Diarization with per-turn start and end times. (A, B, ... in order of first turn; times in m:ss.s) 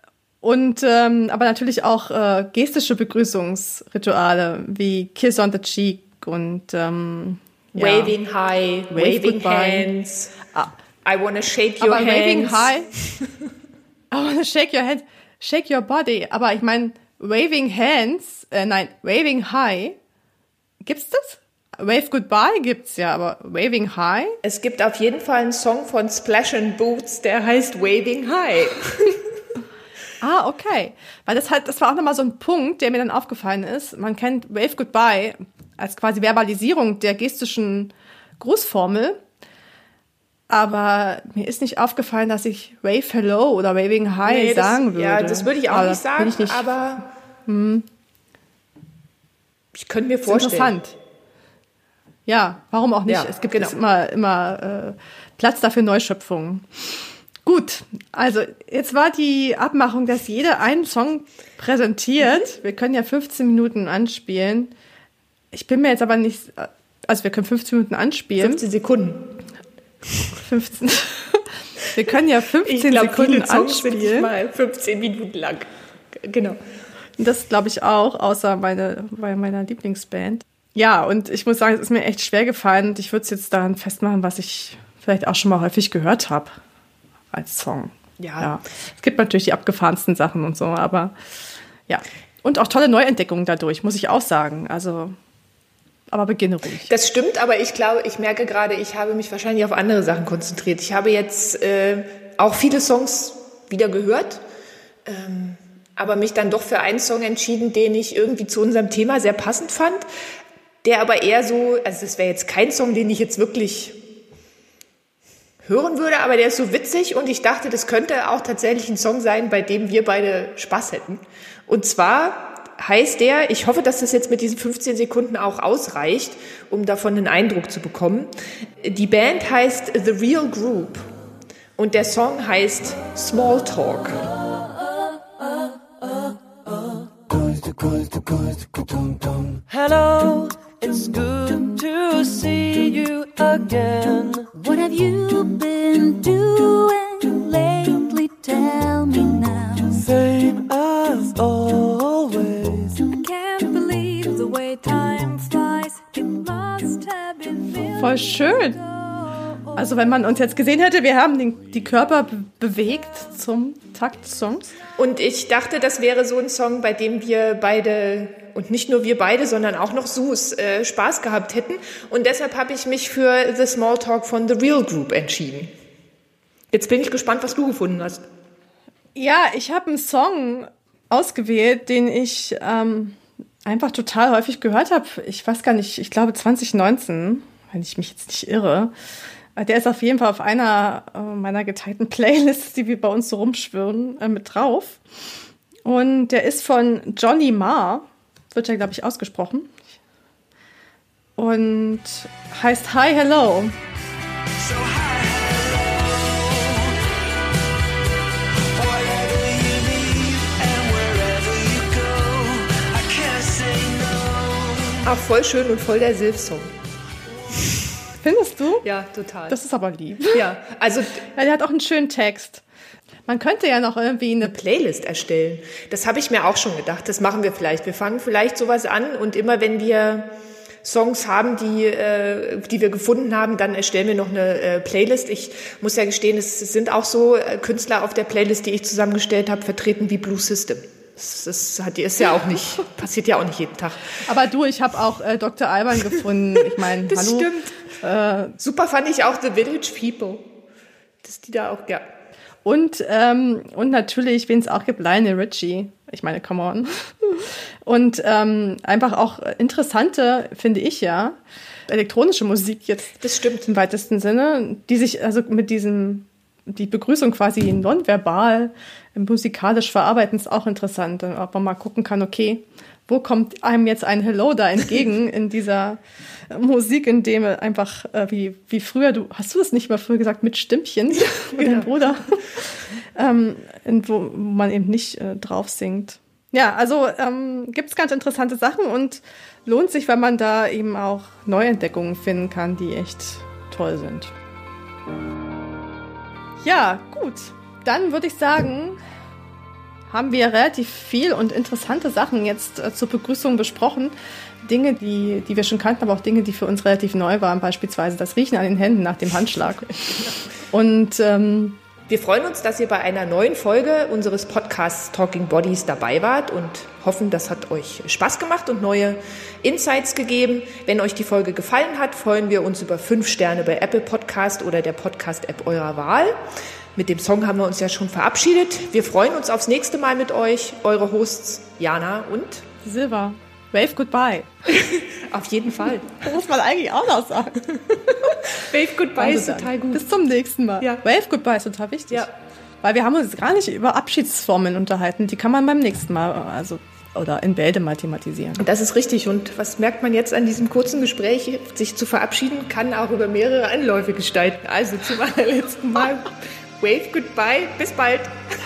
0:00.4-0:08.1 A
0:07.7-0:10.3 B
0:08.9-0:09.9 A
0:11.0-0:13.3 B
0:11.8-0:12.9 A
0:14.1-0:20.0 A
0:20.8-0:24.4 A
0:24.4-0:29.2 B
0:30.2-0:39.2 A
0:40.5-0:46.7 A
0:44.2-0:47.0 B
0:47.5-0:47.8 A
0:49.7-0:50.7 B
0:50.2-0:50.9 A
0:52.2-1:04.7 A
0:53.1-0:53.7 B
1:05.5-1:08.6 A
1:08.4-1:09.3 B
1:10.4-1:14.3 A
1:12.6-1:16.6 B
1:17.2-1:26.6 A
1:27.3-1:31.1 A
1:28.2-1:28.5 B
1:31.9-1:35.2 A
1:36.1-1:36.9 A
1:36.9-1:44.4 B
1:45.0-1:50.0 B
1:50.8-1:54.0 B
1:55.6-2:11.1 B
2:11.8-2:14.2 B
2:16.0-2:24.5 C
2:24.5-2:30.0 D
2:30.0-2:33.0 C
2:33.0-2:39.6 D
2:38.0-2:38.8 A
2:39.7-2:44.7 A
2:45.0-2:55.7 B
2:56.7-2:58.2 B
2:59.2-3:08.9 A
3:09.6-3:15.0 A
3:15.8-3:19.8 A
3:21.4-3:23.8 A
3:24.6-3:27.0 C
3:28.6-3:35.1 C
3:35.0-3:36.7 B
3:38.2-3:38.8 A
3:38.8-3:39.6 B
3:39.5-3:40.5 A
3:40.3-3:41.2 B
3:41.3-3:42.6 A
3:43.3-3:44.5 A
3:44.4-4:04.2 B
4:04.2-4:08.6 A
4:07.0-4:07.8 B
4:08.6-4:10.4 B
4:11.2-4:12.0 B
4:12.6-4:54.3 A
4:23.2-4:23.7 B
4:41.6-4:41.9 B
4:56.6-4:59.0 A
5:00.1-5:11.8 A
5:12.1-5:26.4 B
5:27.0-5:32.7 B
5:32.8-5:34.6 A
5:34.8-5:36.1 B
5:36.2-5:38.6 A
5:38.4-5:40.1 B
5:39.2-5:48.6 A
5:48.6-5:58.4 B